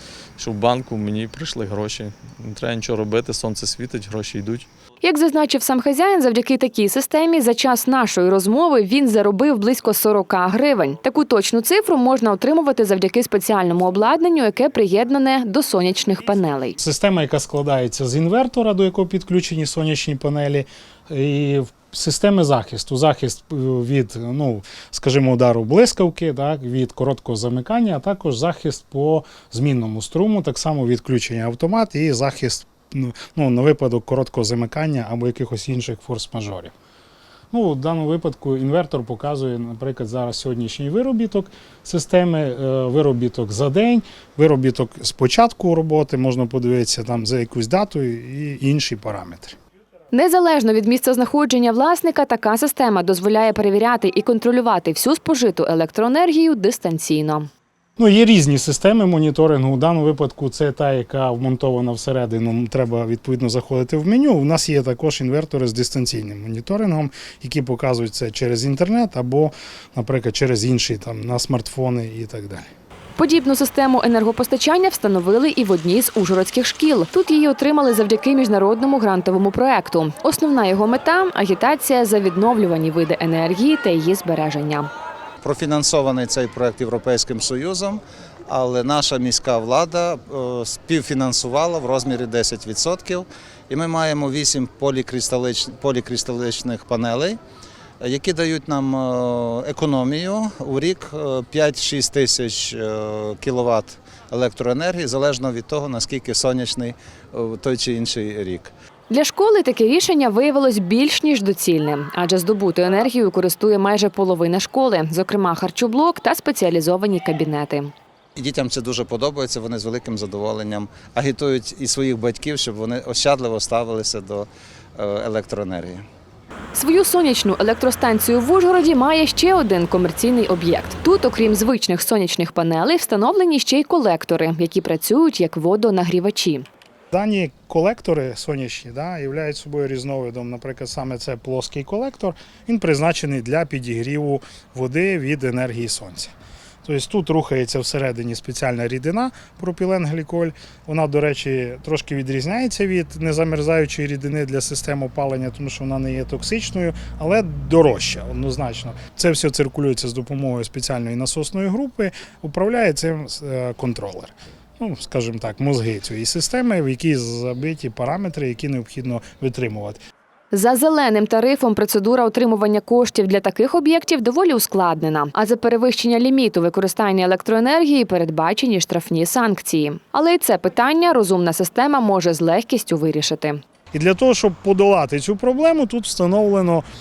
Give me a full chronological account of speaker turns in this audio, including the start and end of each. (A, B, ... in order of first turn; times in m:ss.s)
0:00.4-0:04.7 A
0:05.0-0:16.8 B
0:16.8-0:36.7 C
0:37.5-0:49.6 C
0:50.1-0:57.5 B
0:58.0-1:12.7 C
1:13.2-1:24.9 B
1:25.4-1:37.4 D
1:38.0-1:48.7 D
1:49.1-1:57.9 B
1:58.4-2:06.0 D
2:06.7-2:16.6 B
2:17.1-2:26.3 C
2:26.8-2:50.0 C
2:50.5-3:03.6 B
3:03.9-3:06.8 C